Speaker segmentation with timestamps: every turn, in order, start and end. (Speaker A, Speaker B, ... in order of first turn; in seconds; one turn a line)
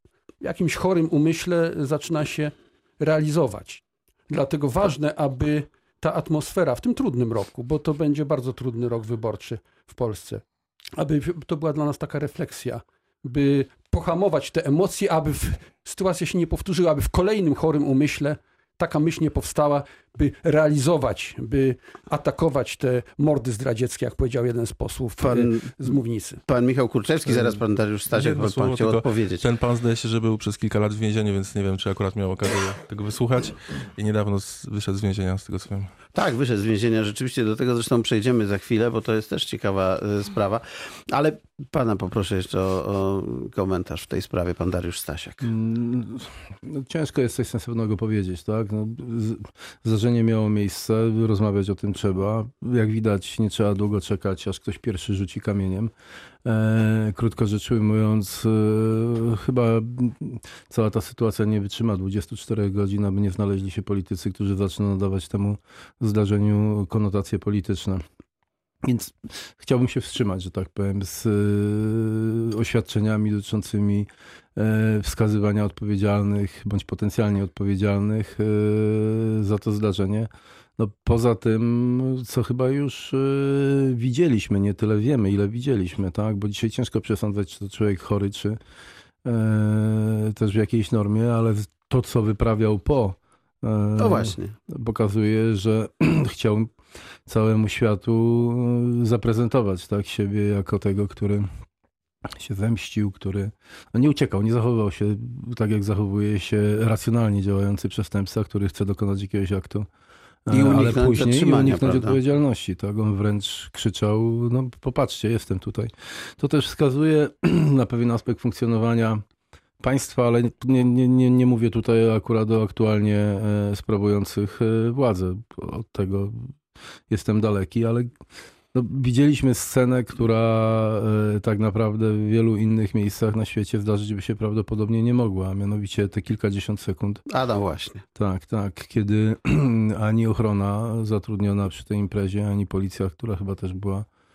Speaker A: 0.4-10.4
Speaker A: 11.0-26.4
Speaker B: 25.2-25.9
Speaker B: 26.5-29.5
Speaker C: 28.1-35.9
Speaker B: 36.1-45.5
Speaker D: 45.4-55.9
Speaker D: 56.5-68.0
Speaker D: 68.8-88.6
Speaker D: 89.2-96.7
Speaker B: 94.0-94.5
Speaker D: 97.3-101.5
Speaker D: 102.4-109.9
Speaker D: 110.5-119.2
Speaker B: 110.5-112.2
Speaker D: 119.8-126.5
Speaker D: 127.1-128.1
Speaker D: 128.7-137.2
Speaker B: 137.3-138.0
Speaker D: 138.2-144.1